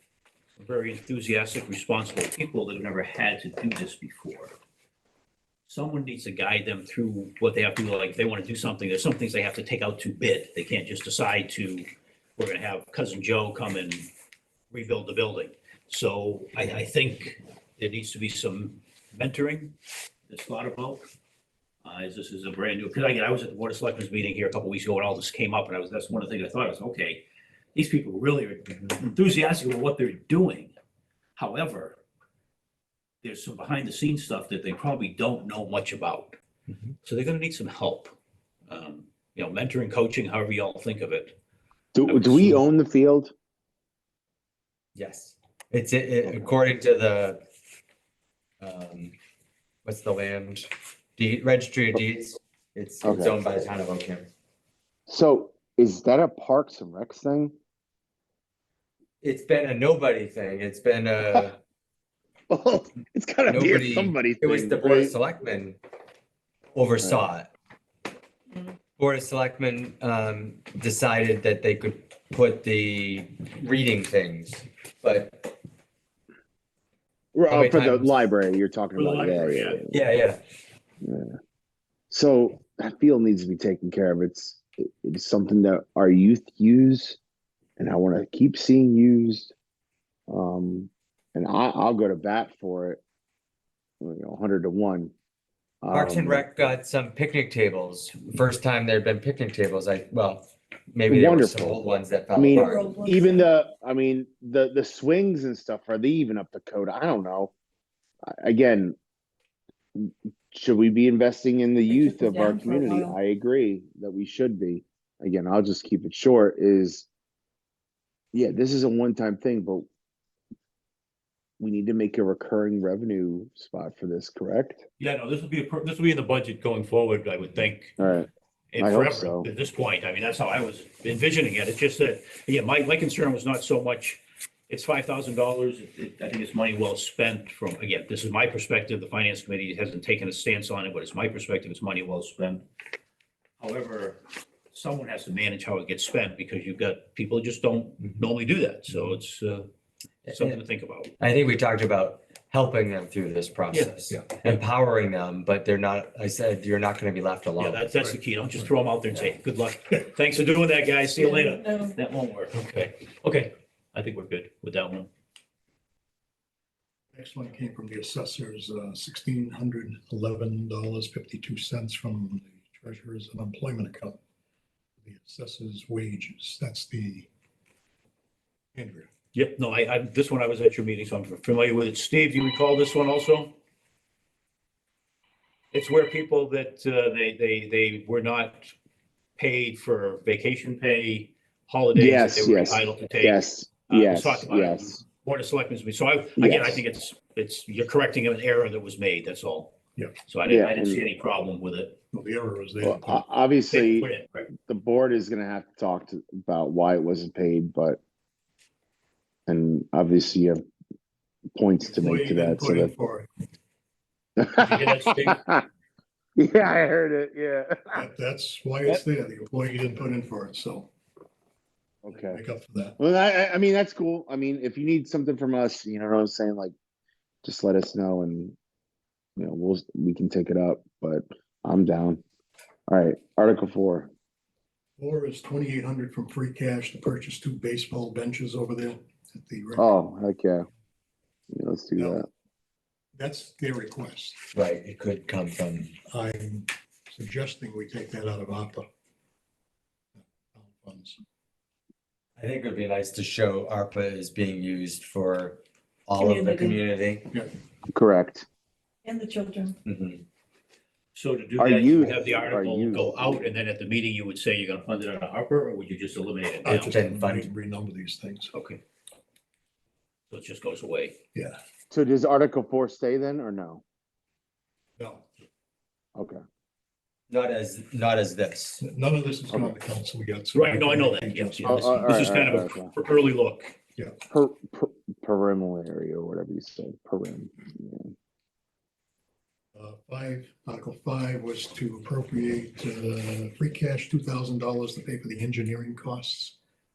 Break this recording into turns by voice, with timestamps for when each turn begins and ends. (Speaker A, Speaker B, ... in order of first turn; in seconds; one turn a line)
Speaker A: 0.6-4.5
Speaker A: 5.7-14.1
Speaker A: 14.7-19.8
Speaker A: 20.3-21.0
Speaker A: 21.8-27.2
Speaker A: 27.8-30.7
Speaker A: 31.4-32.0
Speaker A: 33.2-36.4
Speaker A: 37.0-38.2
Speaker A: 38.7-41.4
Speaker B: 42.0-43.3
Speaker A: 42.0-42.6
Speaker C: 45.0-47.4
Speaker B: 46.3-46.5
Speaker C: 48.6-49.1
Speaker C: 49.8-54.3
Speaker B: 53.0-53.4
Speaker B: 55.1-57.5
Speaker C: 59.2-61.5
Speaker B: 62.5-65.1
Speaker C: 63.5-65.8
Speaker C: 66.7-67.5
Speaker C: 69.0-75.5
Speaker B: 77.3-80.0
Speaker C: 77.5-78.1
Speaker A: 79.0-79.8
Speaker C: 79.9-80.4
Speaker B: 81.0-81.3
Speaker B: 82.1-87.2
Speaker B: 87.8-89.5
Speaker B: 90.3-93.0
Speaker B: 94.0-95.1
Speaker B: 95.8-96.5
Speaker C: 95.9-103.0
Speaker B: 101.1-107.5
Speaker D: 102.5-103.5
Speaker B: 108.3-109.0
Speaker B: 110.0-117.1
Speaker D: 111.9-113.2
Speaker B: 118.3-119.9
Speaker B: 121.6-124.8
Speaker A: 125.0-128.0
Speaker B: 128.0-129.5
Speaker A: 128.7-142.6
Speaker A: 143.6-149.7
Speaker A: 150.2-151.1
Speaker C: 150.3-150.6
Speaker C: 151.2-157.8
Speaker A: 153.7-154.6
Speaker A: 157.6-165.1
Speaker D: 161.2-161.9
Speaker E: 167.1-174.2
Speaker E: 175.0-177.3
Speaker E: 178.7-179.1
Speaker A: 179.3-183.5
Speaker A: 185.7-188.7
Speaker A: 189.4-199.7
Speaker B: 191.9-195.0
Speaker B: 196.4-196.8
Speaker A: 200.2-202.0
Speaker B: 200.5-201.0
Speaker E: 202.1-203.2
Speaker B: 202.8-204.1
Speaker A: 203.7-204.5
Speaker B: 204.7-208.0
Speaker B: 209.5-210.6
Speaker B: 211.6-212.9
Speaker E: 211.8-213.3
Speaker B: 214.4-215.6
Speaker A: 214.6-215.4
Speaker B: 216.4-218.0
Speaker E: 217.9-220.9
Speaker B: 222.0-222.4
Speaker E: 222.1-223.0
Speaker B: 223.0-226.7
Speaker B: 227.4-228.6
Speaker B: 229.4-232.2
Speaker B: 232.9-234.1
Speaker E: 235.0-239.9
Speaker B: 239.8-240.7
Speaker B: 241.5-242.2
Speaker E: 242.0-242.2
Speaker E: 243.1-244.4
Speaker C: 244.5-245.9
Speaker E: 246.0-248.8
Speaker E: 250.1-251.2
Speaker C: 252.4-257.3
Speaker D: 256.2-256.8
Speaker B: 257.9-258.5
Speaker D: 259.1-259.8
Speaker C: 259.9-260.2
Speaker A: 261.1-266.9
Speaker B: 261.6-263.5
Speaker E: 266.6-268.5
Speaker C: 266.7-267.5
Speaker A: 268.5-268.8
Speaker A: 270.3-271.2
Speaker B: 271.9-273.8
Speaker E: 275.0-275.2
Speaker B: 276.1-276.4
Speaker C: 277.3-278.8
Speaker E: 278.8-282.2
Speaker A: 280.5-283.7
Speaker B: 281.6-282.9
Speaker B: 284.3-288.1
Speaker E: 289.8-296.6